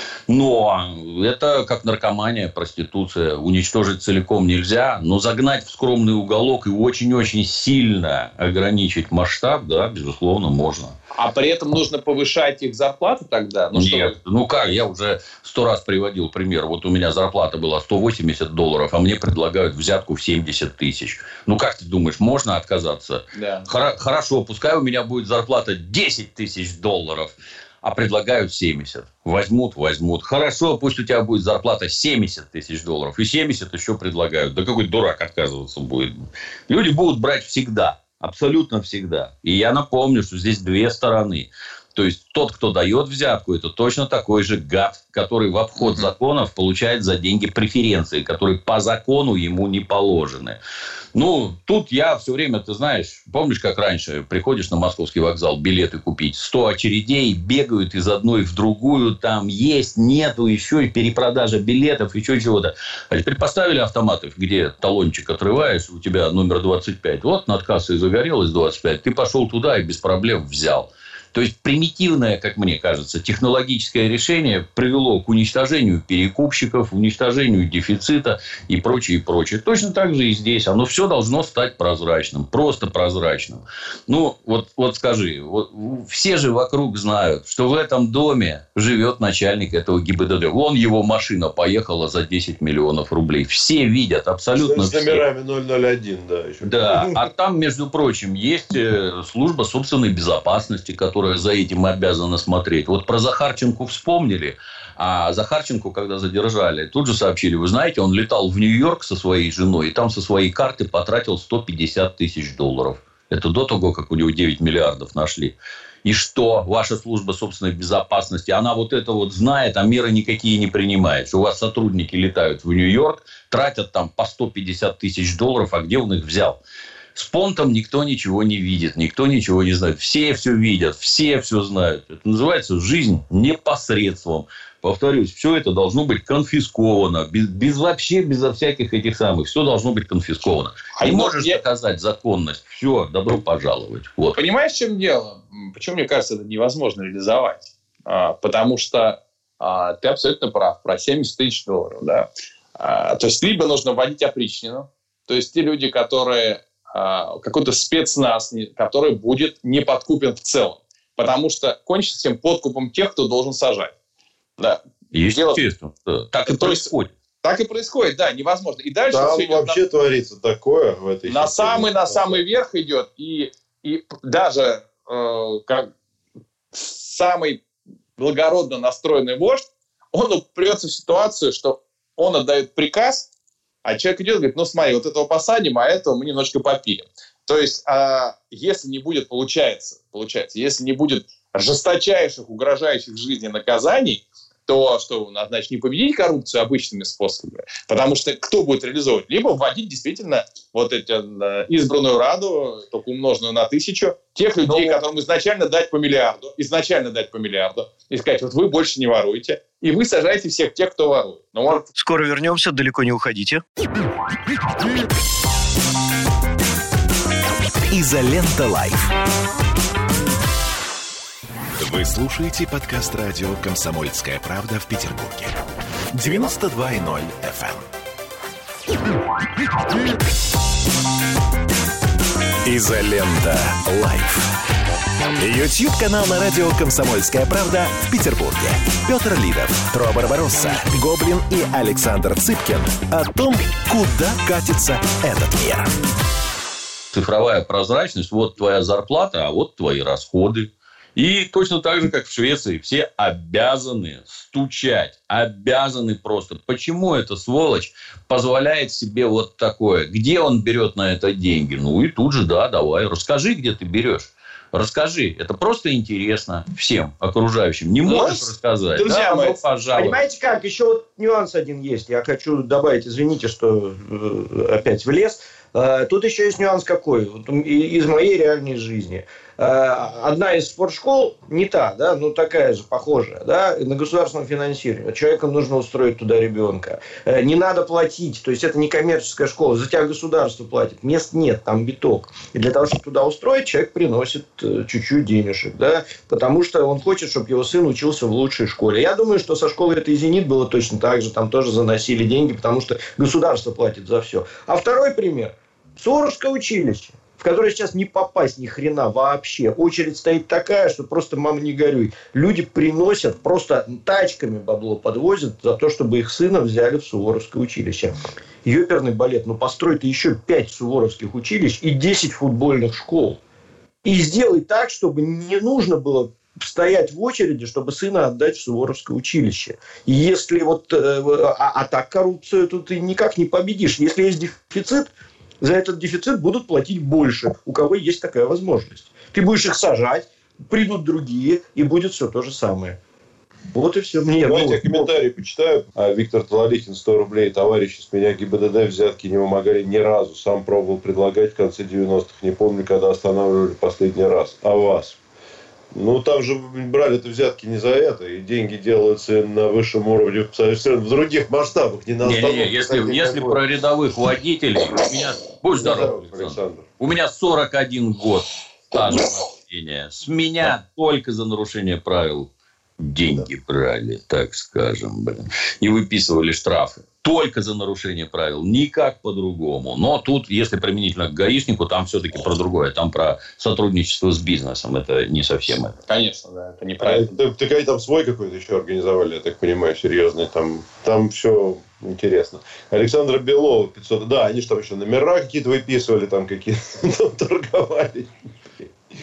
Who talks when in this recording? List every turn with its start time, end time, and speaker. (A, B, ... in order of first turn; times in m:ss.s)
0:00.3-0:11.0 A
0:11.1-0:14.8 B
0:13.7-0:50.6 A
0:23.3-0:23.7 B
0:45.8-0:46.1 B
0:51.1-1:35.2 A
1:34.6-1:37.1 C
1:36.6-2:06.6 A
2:07.1-2:24.4 A
2:20.9-2:21.6 B
2:24.4-2:43.9 B
2:44.6-2:45.6 B
2:45.1-2:47.1 A
2:46.4-2:46.9 B
2:47.4-2:49.8 B
2:49.1-2:52.4 C
2:51.3-2:55.9 B
2:56.7-2:57.6 B
2:58.2-3:03.3 B
3:03.8-3:31.8 B
3:24.6-3:25.0 D
3:31.7-3:33.6 D
3:37.9-3:39.1 E
3:41.8-3:45.6 E
3:46.1-3:47.8 E
3:52.6-3:54.5 E
3:55.4-4:05.9 E
4:07.1-4:30.2 A
4:28.0-4:29.6 B
4:29.9-5:23.4 D
5:24.0-5:35.1 D
5:35.6-5:43.0 D
5:43.7-5:45.1 D
5:44.4-5:55.2 C
5:55.9-6:03.6 C
6:02.2-6:26.0 A
6:05.7-6:06.8 C
6:26.1-6:27.3 B
6:27.0-6:38.9 C